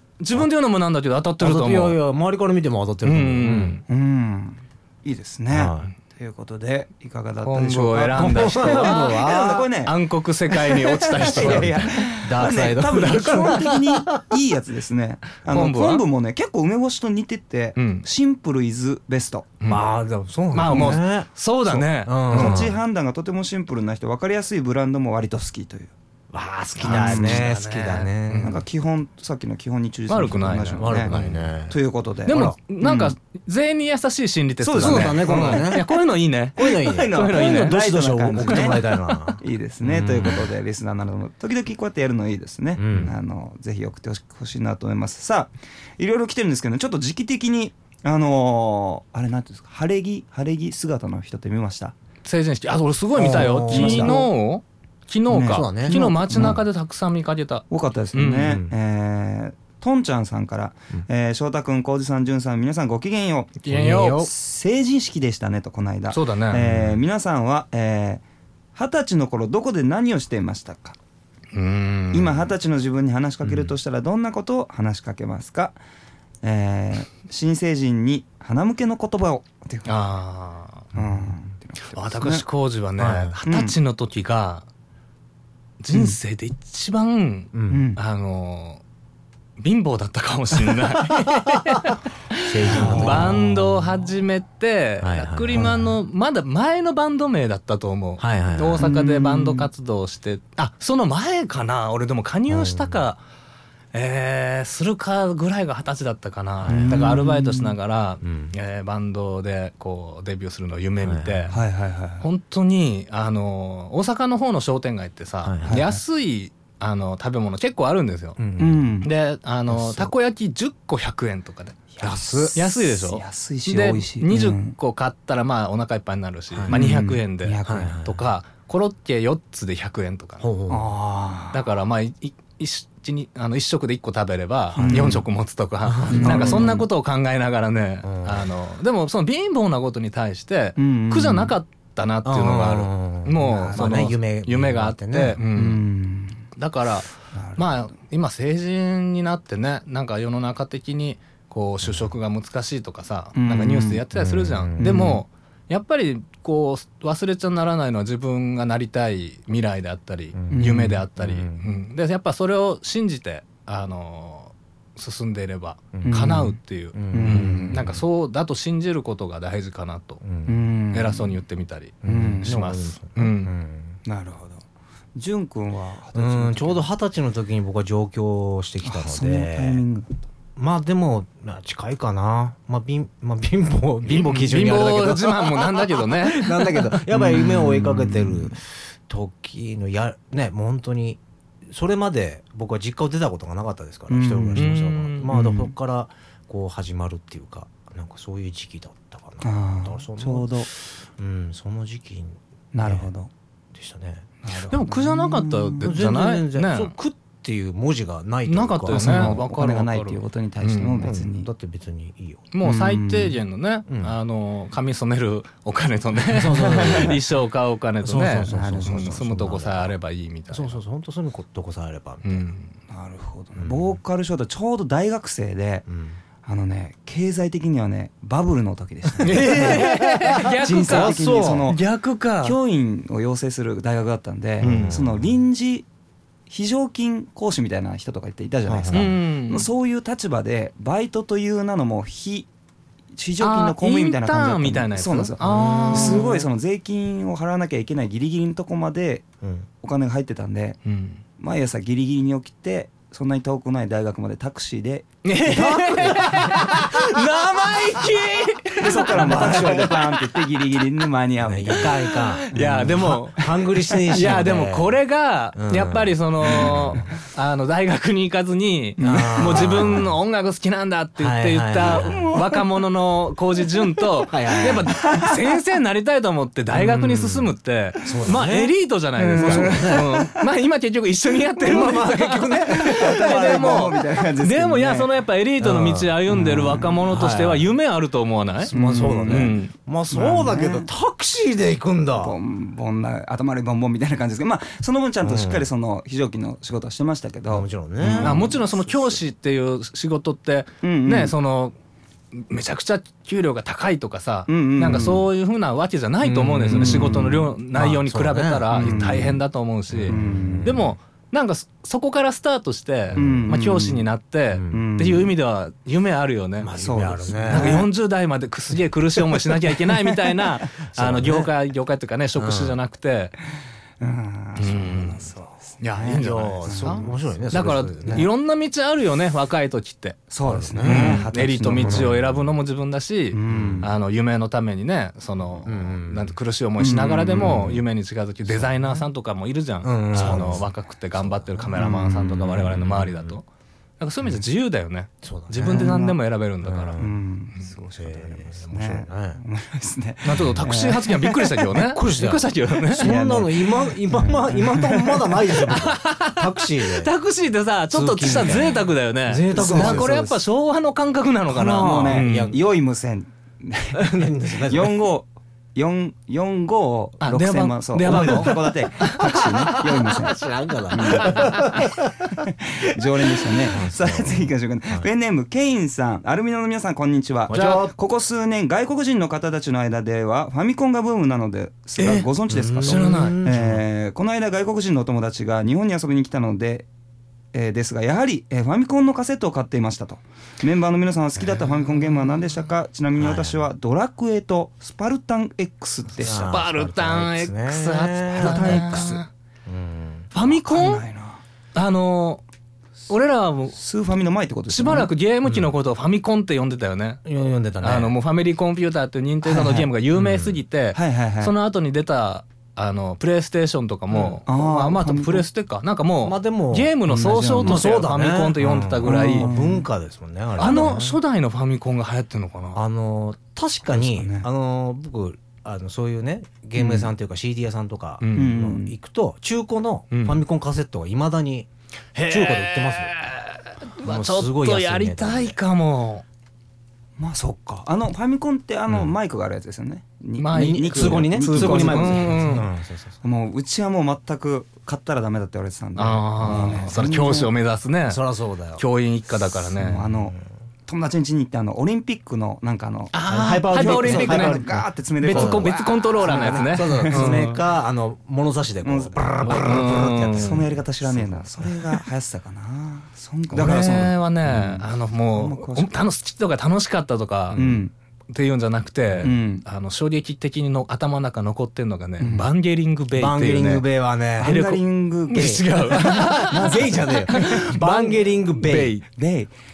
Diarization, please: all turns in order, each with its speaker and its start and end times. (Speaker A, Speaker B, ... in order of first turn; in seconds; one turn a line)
Speaker A: 0.2-2.0
Speaker B: 1.4-3.8
Speaker A: 3.0-3.8
Speaker C: 3.9-10.0
Speaker B: 5.5-5.9
Speaker A: 7.4-9.3
Speaker B: 8.1-9.7
Speaker A: 9.8-12.1
Speaker C: 10.5-19.6
Speaker B: 11.2-14.2
Speaker A: 12.8-13.5
Speaker A: 15.5-16.0
Speaker A: 17.8-18.1
Speaker B: 19.7-21.3
Speaker A: 20.5-22.6
Speaker C: 20.7-21.0
Speaker C: 21.7-25.9
Speaker B: 22.0-22.8
Speaker B: 26.3-28.6
Speaker A: 26.8-28.6
Speaker C: 26.8-27.6
Speaker C: 28.4-33.1
Speaker A: 30.1-31.4
Speaker B: 30.8-32.6
Speaker A: 32.3-37.8
Speaker C: 34.6-35.9
Speaker B: 34.8-35.9
Speaker B: 36.6-40.5
Speaker C: 36.6-38.8
Speaker A: 38.4-38.8
Speaker C: 39.4-51.9
Speaker B: 42.8-43.1
Speaker A: 52.2-58.6
Speaker B: 53.2-54.2
Speaker C: 53.2-54.3
Speaker C: 55.3-56.6
Speaker B: 55.5-56.6
Speaker C: 57.7-68.2
Speaker B: 58.4-58.7
Speaker A: 63.6-64.3
Speaker B: 63.7-64.3
Speaker A: 66.1-66.7
Speaker B: 66.7-67.0
Speaker C: 68.8-71.0
Speaker A: 71.5-72.5
Speaker C: 72.1-75.8
Speaker B: 73.4-73.7
Speaker C: 76.4-79.9
Speaker A: 79.9-80.9
Speaker C: 80.9-82.4
Speaker A: 81.9-84.7
Speaker B: 83.0-83.4
Speaker C: 83.5-83.8
Speaker A: 85.8-88.8
Speaker B: 87.5-87.8
Speaker C: 87.7-88.0
Speaker A: 89.6-103.2
Speaker B: 91.2-91.6
Speaker B: 92.5-93.8
Speaker C: 92.7-93.4
Speaker B: 95.0-96.0
Speaker B: 98.2-98.9
Speaker C: 98.8-99.7
Speaker B: 102.5-103.0
Speaker A: 103.9-111.6
Speaker B: 106.6-107.1
Speaker C: 106.7-107.8
Speaker B: 108.2-108.5
Speaker B: 111.0-111.5
Speaker C: 111.5-112.3
Speaker A: 112.2-118.4
Speaker B: 115.4-115.8
Speaker C: 115.7-116.0
Speaker B: 118.4-118.9
Speaker C: 118.6-119.1
Speaker A: 119.0-121.9
Speaker C: 121.9-124.8
Speaker B: 122.0-122.6
Speaker A: 122.5-130.5
Speaker B: 126.5-126.8
Speaker C: 126.7-128.0
Speaker B: 127.7-128.2
Speaker B: 130.4-131.0
Speaker C: 130.7-131.6
Speaker A: 131.5-145.8
Speaker B: 134.8-135.2
Speaker C: 134.8-135.2
Speaker B: 135.8-136.8
Speaker C: 136.1-136.8
Speaker B: 138.0-138.5
Speaker C: 140.8-141.6
Speaker B: 142.2-145.4
Speaker C: 143.4-144.1
Speaker C: 145.5-146.5
Speaker A: 146.6-170.2
Speaker C: 147.3-147.7
Speaker C: 153.3-154.1
Speaker B: 154.1-155.2
Speaker C: 154.8-155.2
Speaker B: 160.3-161.7
Speaker C: 160.5-161.0
Speaker B: 165.9-166.4
Speaker C: 166.1-166.6
Speaker B: 166.9-168.0
Speaker C: 167.1-167.8
Speaker B: 170.2-170.6
Speaker C: 170.5-171.4
Speaker A: 170.9-173.5
Speaker B: 172.0-174.0
Speaker C: 172.1-172.6
Speaker C: 174.1-174.6
Speaker C: 175.2-176.9
Speaker B: 176.2-179.8
Speaker C: 178.8-180.1
Speaker B: 180.6-203.1
Speaker A: 184.1-186.9
Speaker C: 187.1-188.5
Speaker C: 194.1-194.7
Speaker A: 194.6-195.3
Speaker C: 195.3-195.7
Speaker C: 199.4-200.7
Speaker C: 202.7-203.3
Speaker B: 203.7-204.3
Speaker C: 204.4-205.9
Speaker A: 204.7-206.9
Speaker B: 205.8-209.4
Speaker A: 208.5-211.1
Speaker C: 208.9-211.5
Speaker B: 211.0-212.5
Speaker A: 212.5-220.8
Speaker C: 212.6-213.4
Speaker B: 213.9-214.2
Speaker B: 216.3-217.2
Speaker C: 216.7-217.2
Speaker B: 218.0-219.9
Speaker C: 218.5-219.6
Speaker B: 220.5-222.5
Speaker A: 222.2-222.7
Speaker C: 222.9-225.9
Speaker B: 223.6-224.0
Speaker B: 225.9-226.2
Speaker C: 226.4-231.8
Speaker B: 229.1-231.7
Speaker A: 229.2-232.6
Speaker C: 232.4-235.9
Speaker B: 234.6-235.3
Speaker A: 234.6-235.0
Speaker C: 236.5-242.5
Speaker B: 238.7-239.1
Speaker A: 238.9-239.7
Speaker C: 243.1-249.3
Speaker A: 243.4-246.3
Speaker B: 245.4-246.5
Speaker C: 249.8-250.8
Speaker A: 250.9-251.2
Speaker C: 251.4-256.1
Speaker A: 255.2-260.1
Speaker B: 255.5-256.9
Speaker C: 258.8-263.2
Speaker B: 259.1-260.1
Speaker B: 261.4-265.0
Speaker A: 262.5-263.5
Speaker A: 264.1-289.7
Speaker B: 265.5-267.1
Speaker C: 269.0-270.1
Speaker B: 269.0-270.2
Speaker B: 271.2-272.4
Speaker C: 271.9-272.6
Speaker B: 274.3-275.0
Speaker C: 274.9-275.4
Speaker B: 276.8-277.5
Speaker B: 278.1-278.7
Speaker C: 279.2-280.3
Speaker B: 279.3-280.1
Speaker B: 281.6-283.7
Speaker C: 282.7-285.1
Speaker B: 285.6-287.7
Speaker B: 288.6-292.4
Speaker C: 288.7-289.6
Speaker C: 290.1-290.9
Speaker C: 292.2-299.1
Speaker B: 295.2-295.7
Speaker B: 297.5-298.5
Speaker A: 298.2-301.8
Speaker C: 300.8-301.3
Speaker A: 302.3-316.7
Speaker C: 304.5-305.3
Speaker B: 306.2-309.4
Speaker C: 306.7-307.3
Speaker C: 308.7-309.4
Speaker B: 309.9-310.9
Speaker C: 310.1-310.9
Speaker B: 313.1-313.5
Speaker C: 313.1-314.1
Speaker B: 314.5-314.9
Speaker C: 314.7-315.3
Speaker B: 316.6-317.9
Speaker C: 316.8-317.9
Speaker A: 317.5-323.4
Speaker B: 321.0-321.4
Speaker B: 322.4-322.8
Speaker C: 324.0-327.5
Speaker A: 324.6-330.2
Speaker B: 326.1-328.3
Speaker C: 330.3-332.2
Speaker B: 330.4-332.3
Speaker A: 330.8-343.4
Speaker C: 333.3-333.9
Speaker B: 333.5-333.9
Speaker B: 335.6-336.4
Speaker C: 336.8-337.8
Speaker B: 338.5-339.1
Speaker B: 339.8-343.4
Speaker C: 340.2-340.6
Speaker C: 341.8-342.3
Speaker A: 344.0-347.0
Speaker B: 345.2-346.1
Speaker C: 345.7-346.2
Speaker B: 346.6-347.2
Speaker C: 347.0-351.7
Speaker B: 347.9-349.4
Speaker A: 350.2-353.1
Speaker B: 350.3-350.7
Speaker B: 351.7-357.1
Speaker C: 353.0-355.6
Speaker A: 355.7-362.6
Speaker B: 357.9-360.4
Speaker C: 359.5-360.3
Speaker B: 361.5-362.6
Speaker C: 361.7-386.9
Speaker B: 363.9-365.0
Speaker A: 367.2-369.5
Speaker B: 368.0-372.3
Speaker A: 371.2-371.8
Speaker B: 373.3-375.1
Speaker B: 377.5-377.9
Speaker A: 382.0-382.3
Speaker B: 382.5-383.8
Speaker A: 382.8-383.4
Speaker C: 387.5-396.5
Speaker A: 391.6-392.3
Speaker B: 393.2-393.7
Speaker A: 396.2-399.3
Speaker B: 396.2-399.1
Speaker C: 398.4-399.2
Speaker B: 399.7-400.3
Speaker A: 400.3-401.0
Speaker C: 400.4-401.4
Speaker A: 401.8-402.4
Speaker A: 403.1-403.8
Speaker C: 403.8-405.1
Speaker A: 404.7-407.2
Speaker B: 407.2-408.2
Speaker A: 407.8-419.5
Speaker C: 409.4-409.9
Speaker B: 410.2-410.5
Speaker C: 410.9-411.5
Speaker C: 414.5-415.5
Speaker B: 416.2-421.2
Speaker C: 417.1-417.9
Speaker C: 419.0-419.9
Speaker A: 420.6-422.8
Speaker B: 422.8-431.7
Speaker C: 423.9-424.5
Speaker C: 426.8-427.1
Speaker A: 428.2-428.6
Speaker C: 428.3-429.0
Speaker A: 430.1-430.4
Speaker A: 432.1-436.2
Speaker B: 432.3-433.1
Speaker B: 434.0-435.6
Speaker C: 437.2-442.7
Speaker B: 438.9-439.1
Speaker A: 440.4-442.7
Speaker B: 440.5-443.2
Speaker C: 443.2-447.5
Speaker A: 446.0-448.2
Speaker B: 446.4-446.9
Speaker B: 448.1-448.8
Speaker A: 448.8-450.1
Speaker C: 449.8-457.5
Speaker B: 449.9-450.5
Speaker A: 453.1-454.7
Speaker B: 453.2-461.8
Speaker A: 455.2-457.6
Speaker C: 458.8-466.0
Speaker A: 459.4-460.6
Speaker A: 463.5-467.6
Speaker B: 467.5-467.8
Speaker C: 467.5-467.9
Speaker A: 468.3-473.9
Speaker C: 469.2-469.6
Speaker C: 472.2-472.5
Speaker B: 473.1-474.7
Speaker C: 474.4-477.5
Speaker A: 474.4-479.1
Speaker B: 475.3-478.9
Speaker C: 479.1-479.5